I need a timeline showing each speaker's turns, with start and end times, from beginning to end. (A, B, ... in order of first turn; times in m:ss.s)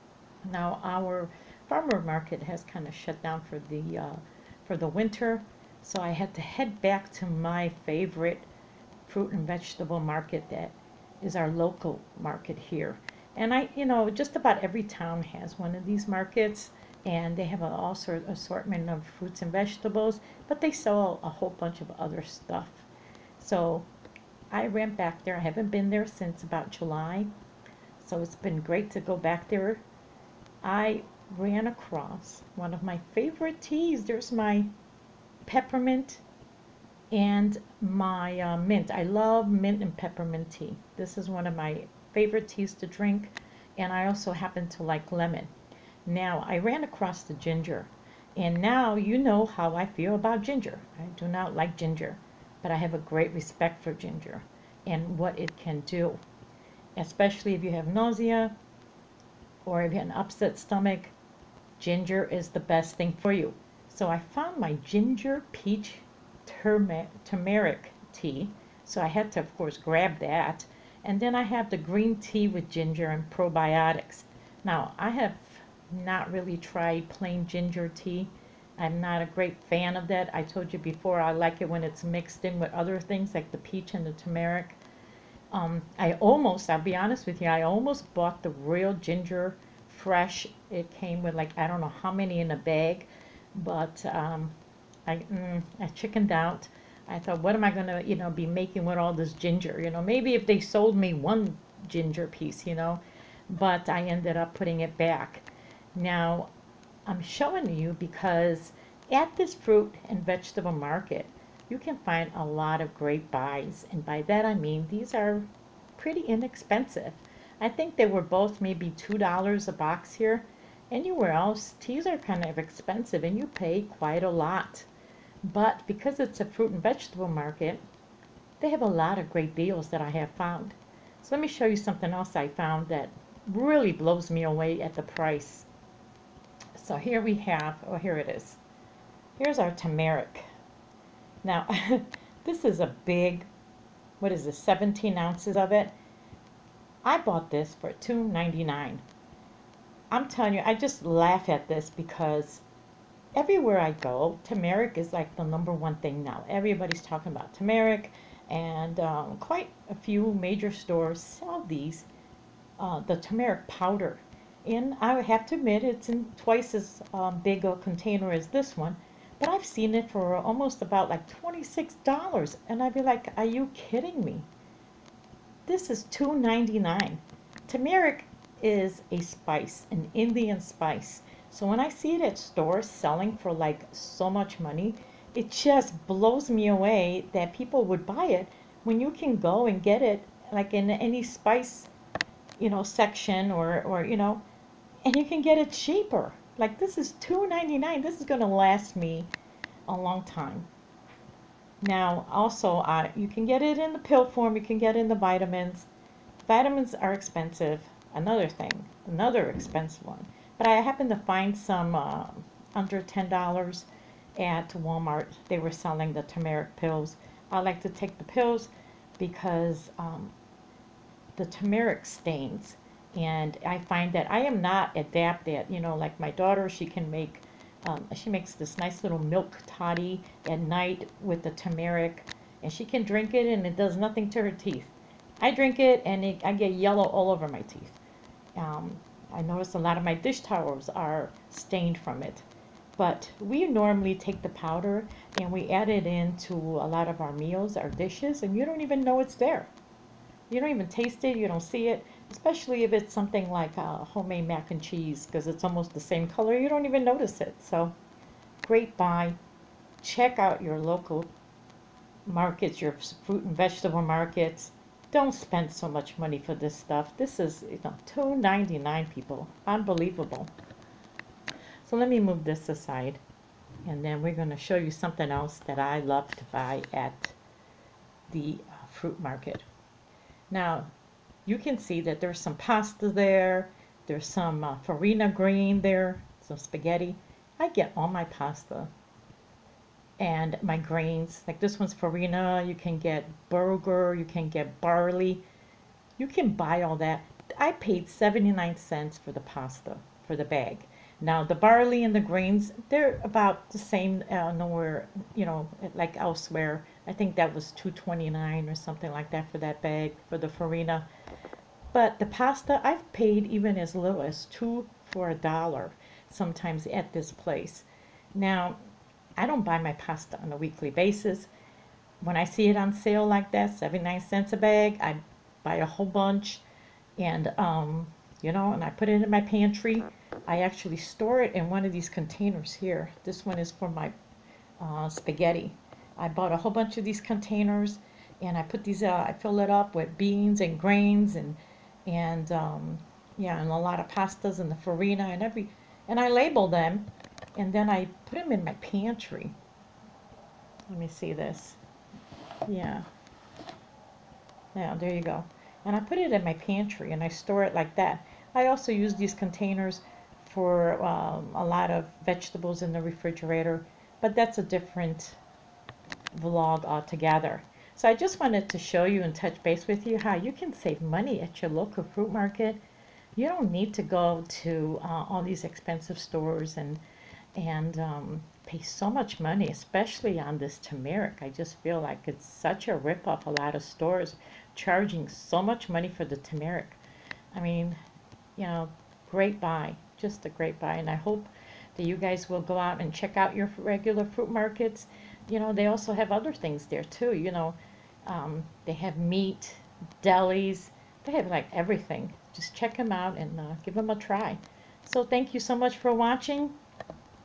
0:00.4-0:08.5 A
0:09.0-0:22.9 A
0:23.4-0:23.9 A
0:24.5-0:27.3 A
0:28.0-0:29.8 A
0:30.6-0:34.7 A
0:35.4-0:36.2 A
0:37.1-0:45.5 A
0:46.0-0:56.2 A
0:57.0-0:58.5 A
0:59.6-1:01.1 A
1:01.8-1:24.8 A
1:25.5-1:34.5 A
1:35.1-1:46.5 A
1:47.0-2:04.9 A
2:05.4-2:07.8 A
2:08.6-2:15.7 A
2:16.7-2:18.6 A
2:19.4-2:20.4 A
2:21.4-2:23.5 A
2:24.2-2:25.9 A
2:27.0-2:29.0 A
2:30.1-2:32.6 A
2:33.4-2:42.1 A
2:42.8-2:54.5 A
2:55.7-3:11.9 A
3:12.6-3:14.4 A
3:15.0-3:19.3 A
3:19.9-3:20.7 A
3:21.8-3:25.9 A
3:26.4-3:40.3 A
3:41.4-3:58.0 A
3:58.6-4:09.7 A
4:10.5-4:17.9 A
4:18.6-4:19.4 A
4:20.0-4:21.3 A
4:22.2-4:30.5 A
4:31.8-4:33.2 A
4:33.8-4:37.4 A
4:38.3-4:39.6 A
4:40.5-4:40.9 A
4:41.4-4:48.9 A
4:50.2-4:55.4 A
4:56.2-5:11.0 A
5:11.9-5:18.8 A
5:19.4-5:21.5 A
5:22.2-5:26.6 A
5:27.2-5:34.1 A
5:34.8-5:49.6 A
5:50.9-5:51.8 A
5:52.6-5:53.0 A
5:54.7-6:05.4 A
6:06.3-6:12.8 A
6:13.4-6:17.0 A
6:17.6-6:27.0 A
6:27.5-6:28.0 A
6:28.6-6:46.8 A